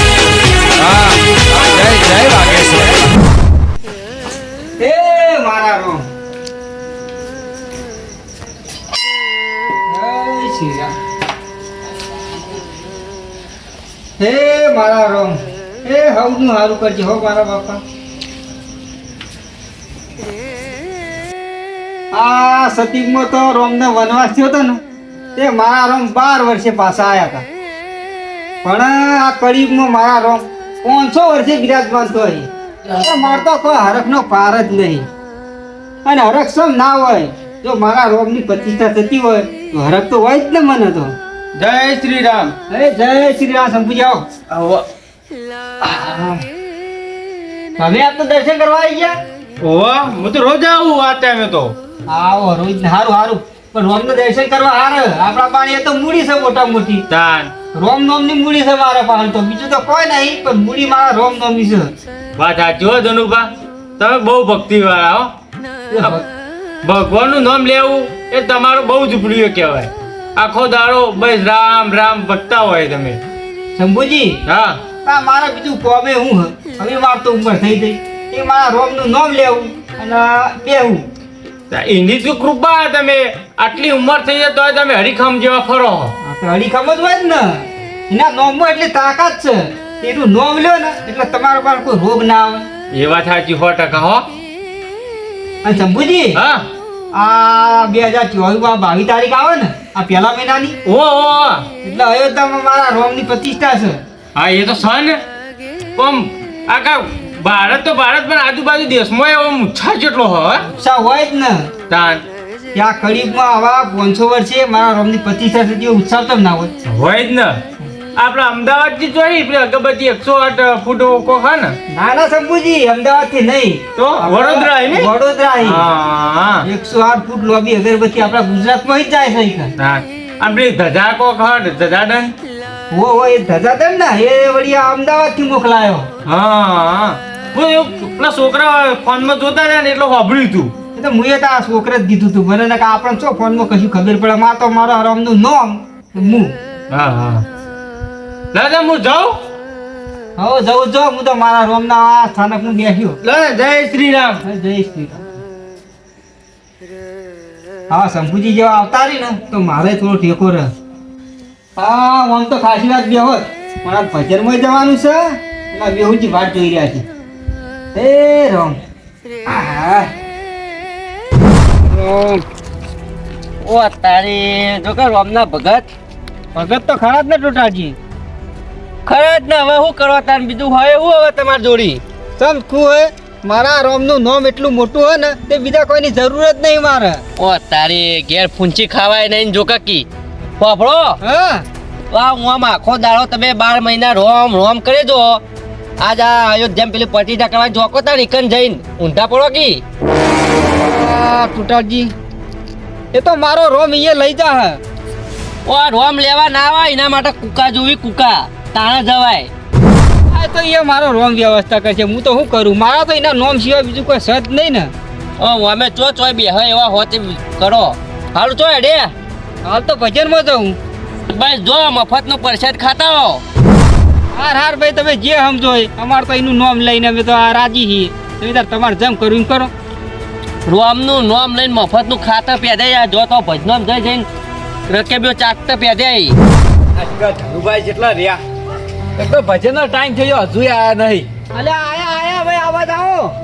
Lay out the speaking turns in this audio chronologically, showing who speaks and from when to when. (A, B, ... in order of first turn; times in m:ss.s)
0:00.8-0:03.1 A
0:04.8-0:06.1 B
0:09.9-0:10.9 B
0:14.2-0:17.8 B
0:22.1-0:24.8 B
0:25.4-0:27.4 B
0:28.6-0:35.1 B
0:36.0-0:41.1 B
0:41.6-0:42.6 C
0:42.7-0:44.2 B
0:44.5-0:44.8 C
0:45.8-0:46.4 C
0:47.8-0:49.2 B
0:49.6-0:51.8 C
0:52.1-0:57.0 B
0:57.1-0:57.5 C
0:57.7-1:01.9 B
1:02.4-1:05.3 C
1:05.9-1:06.2 B
1:06.8-1:13.2 C
1:13.8-1:14.4 B
1:14.5-1:14.8 C
1:15.0-1:21.0 B
1:21.7-1:26.2 C
1:26.2-1:32.7 B
1:32.9-1:34.3 C
1:35.6-1:36.4 B
1:36.4-1:36.7 C
1:37.1-1:40.8 B
1:40.9-1:41.7 C
1:41.8-1:44.0 B
1:44.4-1:45.2 C
1:46.0-1:50.6 C
1:50.6-1:51.7 B
1:51.9-1:52.2 C
1:52.8-1:56.7 B
1:56.8-1:57.6 C
1:58.2-2:01.8 C
2:01.9-2:05.8 B
2:04.0-2:05.1 C
2:05.6-2:06.7 C
2:06.6-2:09.7 B
2:09.8-2:12.4 C
2:12.9-2:16.1 B
2:16.2-2:20.7 C
2:21.0-2:26.6 B
2:26.9-2:27.4 C
2:28.5-2:29.4 C
2:30.4-2:33.2 B
2:33.2-2:34.4 C
2:34.4-2:35.2 B
2:37.9-2:40.7 B
2:41.8-2:47.0 B
2:47.9-2:48.8 B
2:49.5-2:50.1 B
2:51.8-2:52.4 B
2:53.6-2:55.9 D
2:56.6-2:58.0 B
2:59.1-3:02.0 D
3:02.4-3:07.2 B
3:07.4-3:10.1 D
3:10.6-3:11.2 D
3:11.2-3:11.6 B
3:12.1-3:15.4 D
3:16.0-3:19.8 D
3:20.7-3:22.1 B
3:23.1-3:24.8 B
3:25.7-3:29.5 D
3:30.3-3:34.9 B
3:35.4-3:39.1 D
3:39.6-3:40.8 B
3:41.3-3:43.4 D
3:44.3-3:49.7 B
3:50.7-3:54.3 D
3:54.9-3:56.4 D
3:57.0-3:58.4 A
3:59.2-4:01.3 A
4:01.5-4:03.4 B